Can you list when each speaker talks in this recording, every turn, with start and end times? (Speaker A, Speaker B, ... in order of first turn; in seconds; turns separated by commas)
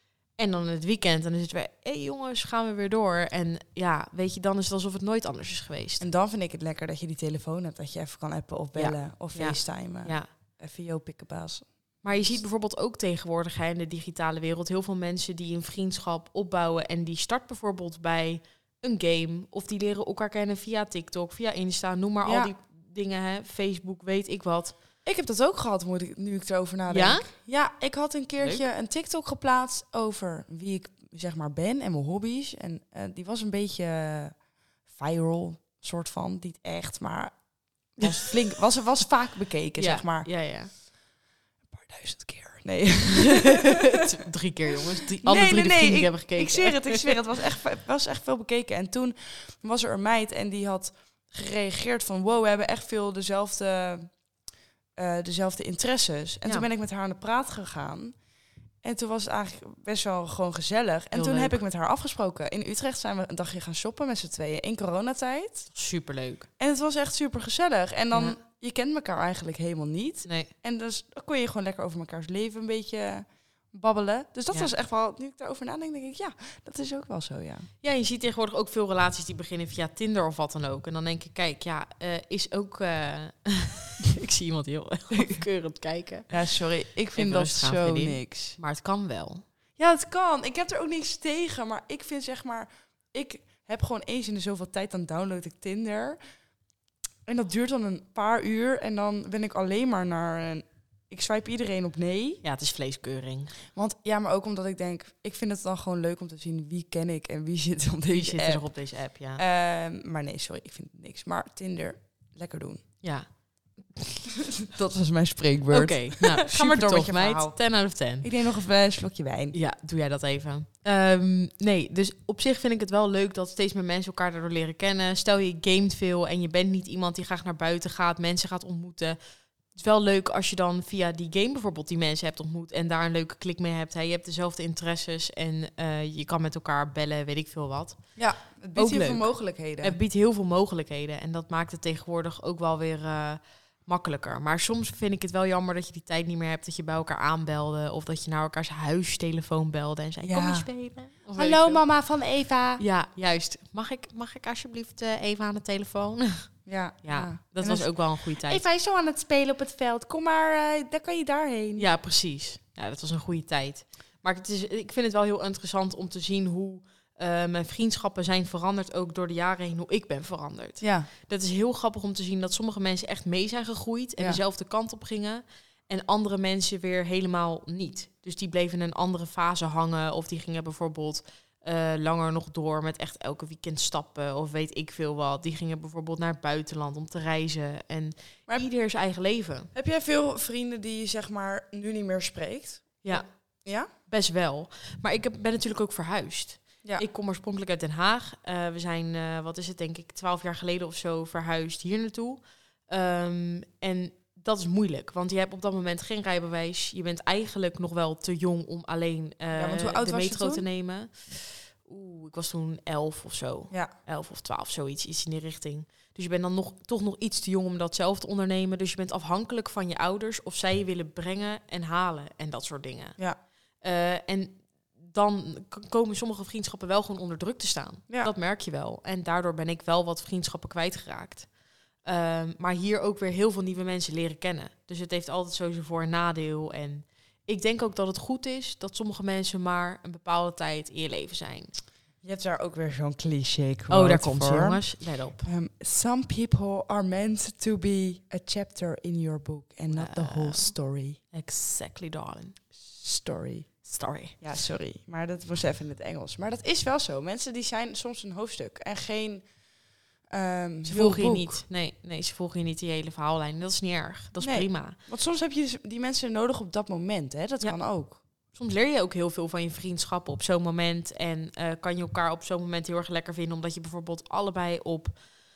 Speaker A: 0.4-6.1, Speaker B: 6.0-12.4, Speaker A: 8.7-10.3, Speaker A: 12.0-24.8, Speaker B: 22.2-22.5, Speaker B: 25.0-34.4, Speaker A: 26.9-27.3, Speaker A: 28.4-28.6, Speaker B: 34.9-37.4, Speaker B: 38.0-40.3, Speaker A: 39.8-40.7, Speaker B: 41.7-43.8, Speaker A: 43.1-47.4, Speaker B: 45.2-54.1, Speaker B: 55.0-58.1, Speaker B: 58.8-65.7, Speaker A: 61.1-61.6, Speaker A: 65.7-66.5, Speaker B: 66.6-77.7, Speaker A: 68.1-68.4, Speaker A: 70.2-70.5, Speaker A: 77.8-86.4, Speaker B: 85.1-85.4, Speaker B: 86.3-88.6, Speaker A: 87.1-89.4, Speaker B: 89.8-96.2, Speaker B: 97.2-102.4, Speaker A: 102.4-103.5, Speaker B: 103.7-108.7, Speaker A: 108.1-109.4, Speaker B: 109.3-112.8, Speaker A: 113.0-113.3, Speaker B: 114.6-117.6, Speaker A: 115.7-118.3, Speaker B: 118.2-119.5, Speaker A: 119.5-129.2, Speaker A: 129.7-138.0, Speaker B: 138.2-140.0, Speaker A: 138.7-151.8, Speaker B: 150.2-150.7, Speaker B: 151.3-152.8, Speaker A: 152.8-158.6, Speaker B: 156.7-161.8, Speaker A: 161.8-189.7, Speaker B: 170.8-171.1, Speaker B: 189.7-193.9, Speaker A: 194.1-223.2, Speaker B: 209.5-210.6, Speaker A: 223.8-231.5, Speaker A: 232.0-241.7, Speaker B: 242.2-244.8, Speaker A: 243.9-245.5, Speaker B: 245.4-251.2, Speaker A: 249.9-250.7, Speaker A: 251.3-252.6, Speaker B: 252.8-253.8, Speaker A: 253.8-254.4, Speaker B: 254.4-259.5, Speaker B: 260.3-261.6, Speaker A: 260.8-265.0, Speaker B: 264.4-268.2, Speaker A: 268.5-275.1